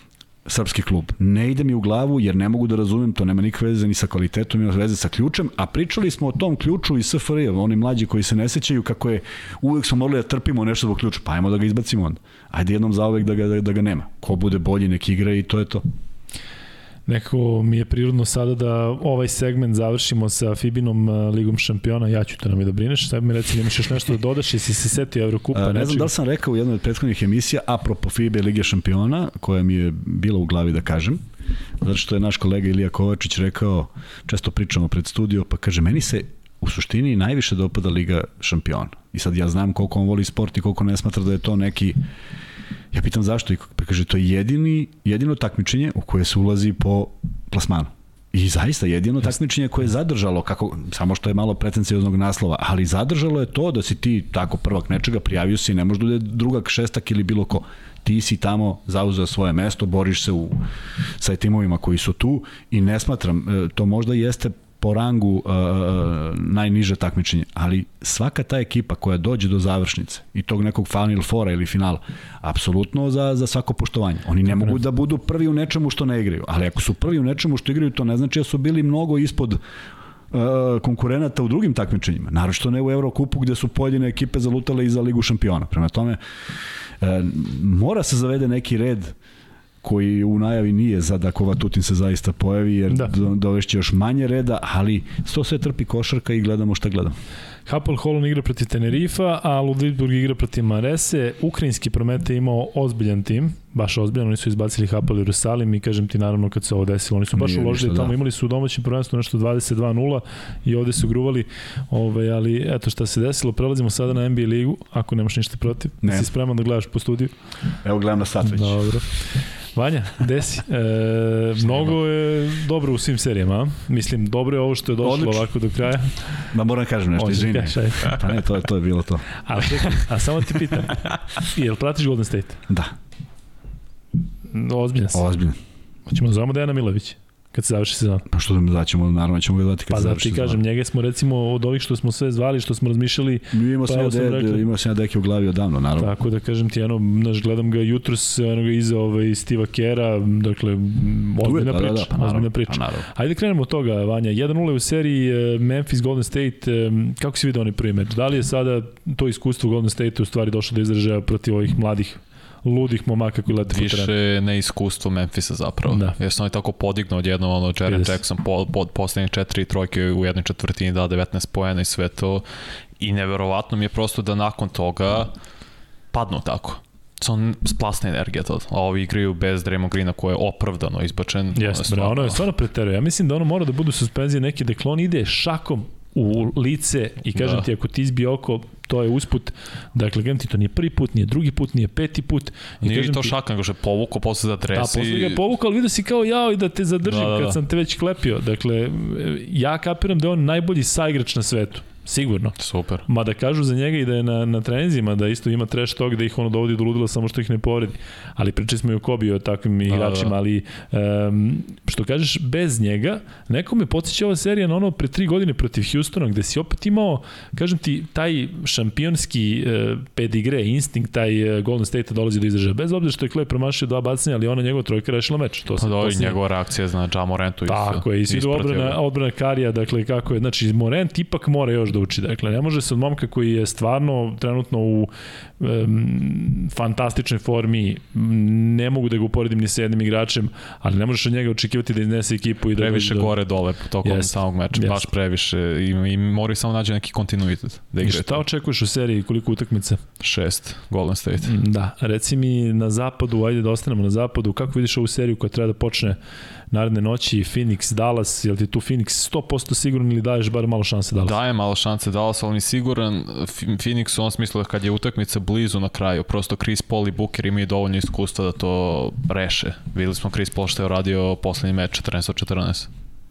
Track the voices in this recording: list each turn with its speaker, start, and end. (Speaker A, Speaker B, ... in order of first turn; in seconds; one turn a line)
Speaker A: 0.5-15.8
Speaker B: 17.1-26.1
Speaker A: 25.5-31.2
Speaker A: 31.8-42.0
Speaker A: 42.9-60.6
Speaker A: 61.2-79.6
Speaker A: 80.3-86.2
Speaker A: 87.0-89.2
Speaker A: 89.8-97.1
Speaker B: 97.7-117.3
Speaker A: 107.3-108.1
Speaker A: 116.0-116.3
Speaker A: 117.8-119.0
Speaker B: 118.4-126.5
Speaker A: 125.0-125.5
Speaker A: 126.5-129.3
Speaker B: 127.2-128.2
Speaker B: 129.4-132.6
Speaker A: 132.7-132.9
Speaker B: 134.5-135.3
Speaker A: 135.1-135.6
Speaker B: 136.1-138.3
Speaker A: 138.3-140.6
Speaker B: 139.9-144.6
Speaker A: 143.5-146.1
Speaker B: 146.0-164.1
Speaker A: 151.4-153.1
Speaker C: 163.7-172.5
Speaker B: 165.9-166.2
Speaker B: 167.9-168.2
Speaker C: 173.0-175.3
Speaker C: 176.1-182.4
Speaker B: 181.6-193.3
Speaker C: 187.4-187.6
Speaker C: 192.8-195.4
Speaker B: 194.7-226.4
Speaker C: 197.1-197.6
Speaker C: 202.6-203.1
Speaker C: 209.9-210.3
Speaker C: 225.8-229.0
Speaker B: 227.7-243.3
Speaker C: 242.8-248.4
Speaker B: 244.0-245.1
Speaker B: 248.0-250.0
Speaker C: 250.2-251.6
Speaker B: 251.4-256.2
Speaker B: 256.7-261.4
Speaker C: 261.2-272.9